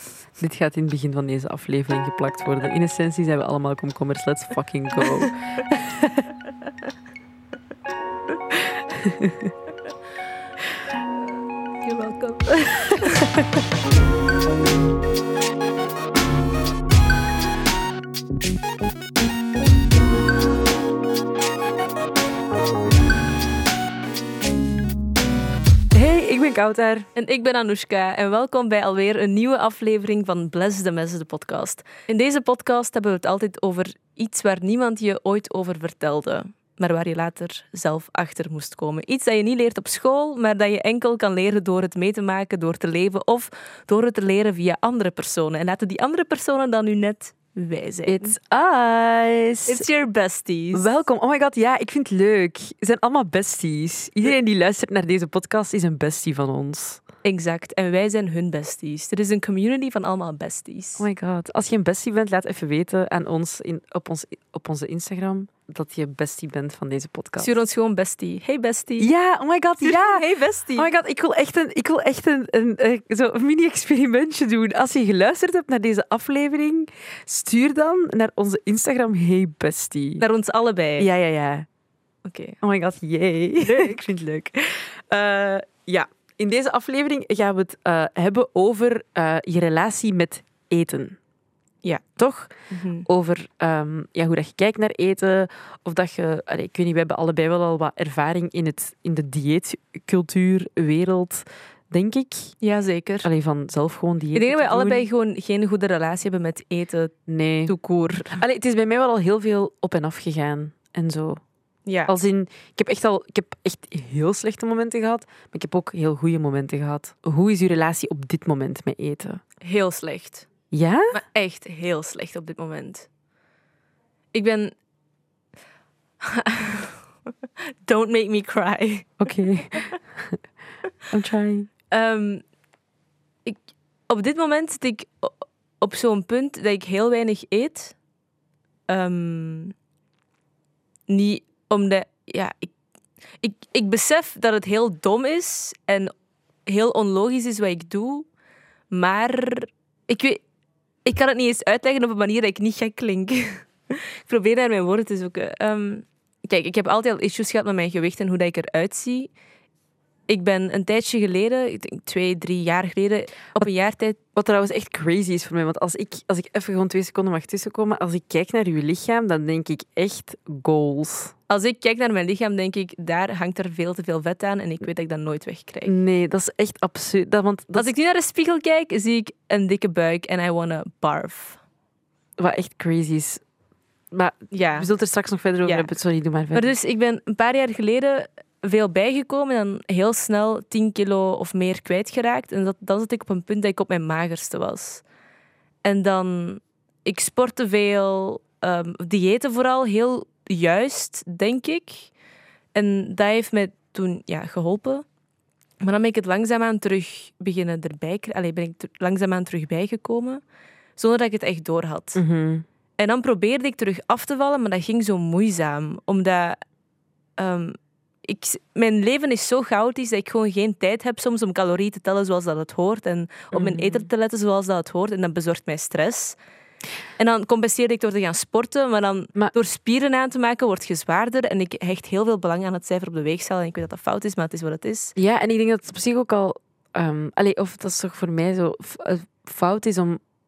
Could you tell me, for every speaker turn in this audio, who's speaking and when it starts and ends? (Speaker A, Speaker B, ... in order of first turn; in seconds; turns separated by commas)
Speaker A: 0.4-6.3, Speaker A: 8.5-9.5, Speaker B: 11.8-13.3, Speaker A: 25.9-27.1, Speaker B: 27.1-48.4, Speaker A: 48.1-49.9, Speaker B: 49.7-50.9, Speaker A: 50.7-57.0, Speaker B: 57.2-61.0, Speaker A: 61.0-67.5, Speaker B: 67.4-69.1, Speaker A: 69.0-70.2, Speaker B: 69.8-70.9, Speaker A: 70.7-80.2, Speaker B: 80.2-81.1, Speaker A: 81.0-81.7, Speaker B: 82.2-82.6, Speaker A: 82.6-91.2, Speaker B: 83.6-83.9, Speaker A: 92.2-102.5, Speaker B: 92.7-93.1, Speaker B: 102.6-103.3, Speaker A: 103.2-105.0, Speaker B: 104.3-107.2, Speaker A: 107.3-107.7, Speaker B: 107.7-108.4, Speaker A: 108.3-111.4, Speaker B: 111.9-112.1, Speaker A: 112.1-119.4, Speaker B: 119.6-120.5, Speaker A: 120.7-121.1, Speaker B: 121.1-123.1, Speaker B: 124.3-124.7, Speaker B: 126.2-127.0, Speaker B: 127.8-129.9, Speaker A: 129.2-130.4, Speaker A: 131.1-131.7, Speaker B: 131.9-132.4, Speaker B: 133.5-138.0, Speaker B: 138.9-139.8, Speaker B: 141.1-142.7, Speaker B: 143.4-146.1, Speaker B: 146.7-148.3, Speaker B: 148.9-150.4, Speaker B: 151.1-159.3, Speaker B: 160.3-164.2, Speaker A: 164.3-171.3, Speaker B: 171.5-175.9, Speaker A: 175.9-177.9, Speaker B: 177.8-181.6, Speaker A: 182.4-183.4, Speaker A: 184.1-186.7, Speaker B: 184.5-184.9, Speaker B: 185.6-185.9, Speaker B: 186.5-195.0, Speaker B: 195.8-202.1, Speaker B: 202.8-205.1, Speaker B: 205.8-210.4, Speaker B: 211.0-212.2, Speaker A: 212.2-212.7, Speaker B: 213.0-216.6, Speaker B: 217.4-226.4, Speaker A: 223.5-224.1, Speaker B: 227.2-235.1, Speaker A: 235.2-240.2